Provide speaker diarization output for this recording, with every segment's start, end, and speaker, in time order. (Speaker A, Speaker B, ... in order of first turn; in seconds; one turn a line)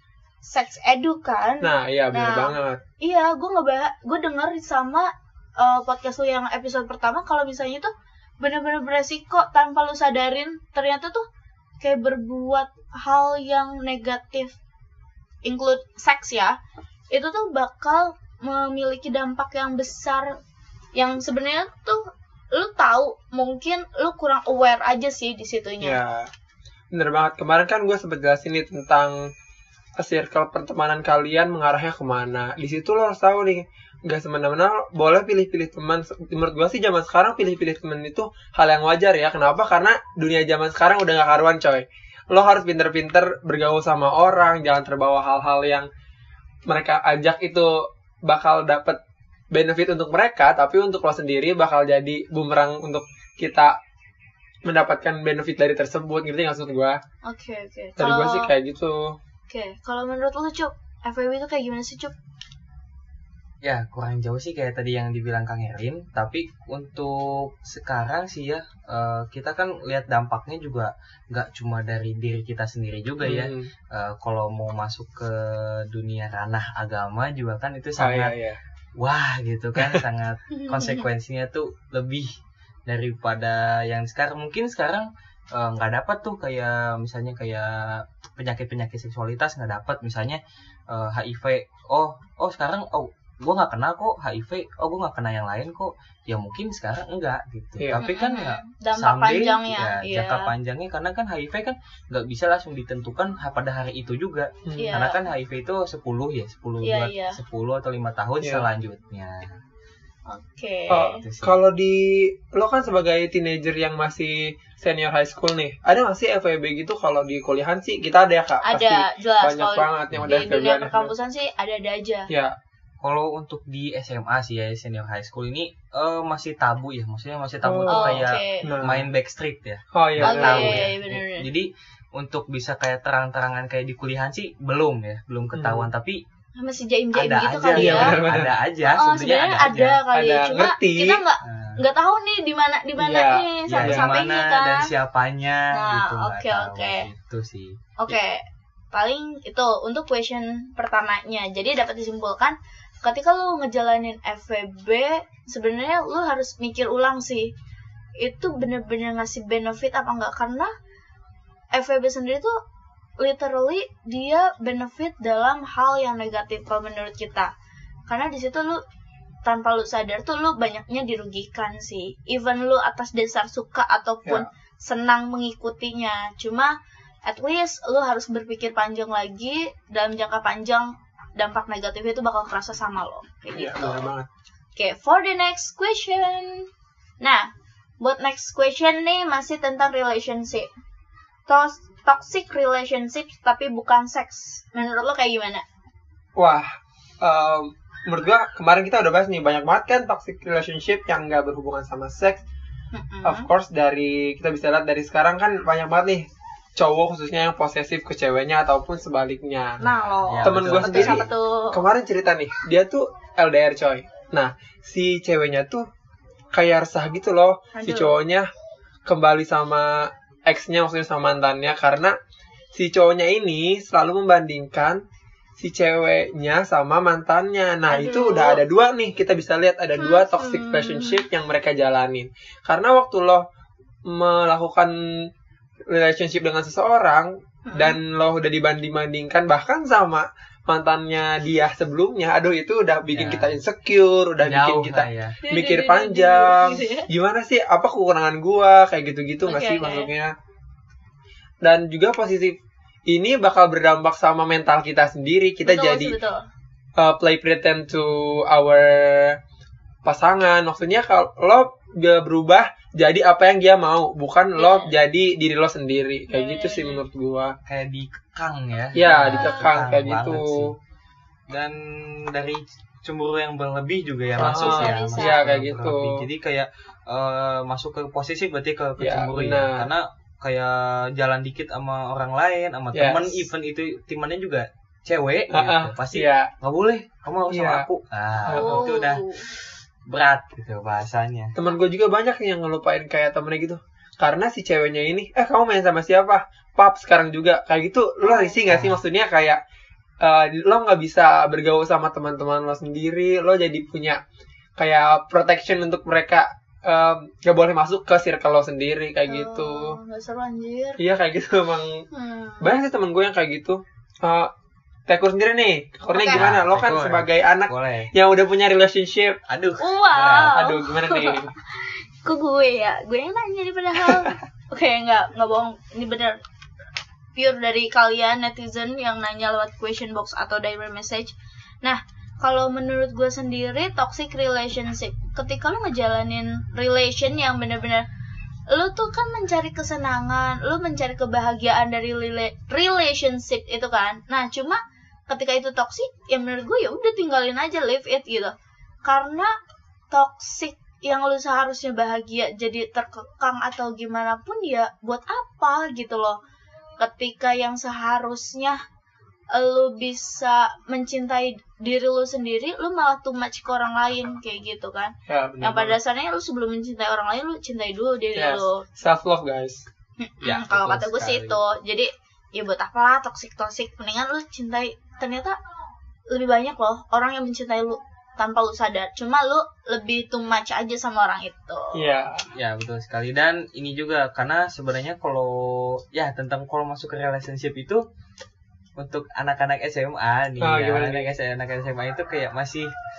Speaker A: 0.5-11.2
Speaker B: 1.6-2.8
Speaker A: 11.8-14.5
Speaker A: 15.4-16.6
Speaker A: 17.1-20.4
Speaker A: 20.9-22.0
Speaker A: 22.5-26.0
Speaker B: 25.8-26.3
Speaker B: 26.9-29.3
Speaker B: 30.0-45.9
Speaker B: 46.7-49.0
Speaker B: 49.5-53.8
Speaker B: 54.6-57.0
Speaker A: 57.2-58.5
Speaker B: 58.0-59.2
Speaker A: 59.5-62.1
Speaker C: 63.6-78.3
Speaker B: 73.2-73.7
Speaker B: 78.0-78.6
Speaker C: 79.0-82.3
Speaker A: 80.6-81.0
Speaker C: 82.9-109.6
Speaker A: 98.0-100.5
Speaker B: 104.7-104.9
Speaker A: 104.8-105.2
Speaker A: 106.8-107.4
Speaker A: 110.3-111.2
Speaker B: 110.9-121.1
Speaker C: 111.2-111.6
Speaker A: 118.6-122.3
Speaker C: 120.1-120.5
Speaker B: 122.3-122.5
Speaker C: 123.0-136.2
Speaker B: 127.6-129.1
Speaker A: 127.9-128.7
Speaker B: 129.9-130.8
Speaker A: 130.2-131.5
Speaker B: 135.5-135.9
Speaker A: 136.6-138.2
Speaker C: 137.1-140.0
Speaker B: 137.7-138.5
Speaker A: 138.8-144.9
Speaker B: 140.1-141.2
Speaker C: 141.4-141.8
Speaker B: 143.0-144.1
Speaker C: 143.7-148.2
Speaker A: 145.7-147.1
Speaker A: 148.0-157.5
Speaker A: 158.2-160.7
Speaker A: 161.7-162.6
Speaker A: 163.2-167.5
Speaker A: 168.1-168.8
Speaker A: 169.4-176.8
Speaker A: 177.3-184.1
Speaker B: 183.6-184.3
Speaker A: 184.8-186.7
Speaker A: 187.2-190.7
Speaker A: 191.5-195.7
Speaker B: 196.4-202.4
Speaker A: 202.9-203.5
Speaker B: 203.2-206.3
Speaker B: 206.8-209.8
Speaker A: 209.8-211.8
Speaker C: 209.9-211.3
Speaker B: 210.4-215.9
Speaker B: 216.5-218.5
Speaker A: 217.7-218.2
Speaker B: 219.1-222.2
Speaker B: 222.7-225.0
Speaker B: 225.6-233.4
Speaker A: 227.9-228.6
Speaker A: 230.0-231.2
Speaker B: 234.1-235.3
Speaker B: 235.9-250.3
Speaker A: 237.7-238.0
Speaker C: 243.1-243.6
Speaker C: 244.4-245.4
Speaker A: 245.4-247.1
Speaker A: 249.4-250.1
Speaker B: 251.6-252.6
Speaker B: 253.1-256.1
Speaker A: 255.6-256.4
Speaker B: 257.0-259.4
Speaker B: 260.0-267.5
Speaker A: 264.6-264.9
Speaker A: 266.3-267.0
Speaker C: 267.7-270.8
Speaker B: 268.9-270.8
Speaker A: 269.3-269.6
Speaker C: 271.5-291.5
Speaker A: 274.4-275.6
Speaker B: 274.4-276.2
Speaker B: 279.0-279.9
Speaker B: 282.9-283.4
Speaker B: 285.5-286.5
Speaker B: 287.5-287.9
Speaker B: 288.5-288.9
Speaker A: 288.5-289.5
Speaker B: 291.6-299.6
Speaker A: 298.2-298.6
Speaker C: 298.7-299.0
Speaker B: 300.2-304.2
Speaker B: 304.8-310.0
Speaker A: 309.3-311.0
Speaker B: 311.0-312.0
Speaker A: 312.1-312.8
Speaker B: 312.6-314.5
Speaker B: 315.1-319.4
Speaker A: 316.1-316.4
Speaker C: 316.3-318.1
Speaker C: 319.5-319.8
Speaker A: 319.8-326.4
Speaker B: 320.1-321.5
Speaker A: 327.4-331.3
Speaker A: 331.8-338.1
Speaker A: 338.7-349.5
Speaker A: 350.1-356.4
Speaker A: 357.0-358.8
Speaker A: 359.5-368.9
Speaker B: 365.3-366.0
Speaker B: 368.4-369.9
Speaker A: 370.2-375.6
Speaker C: 370.5-371.5
Speaker A: 376.3-382.1
Speaker B: 381.9-382.4
Speaker C: 382.6-388.0
Speaker C: 389.0-392.9
Speaker B: 390.6-391.3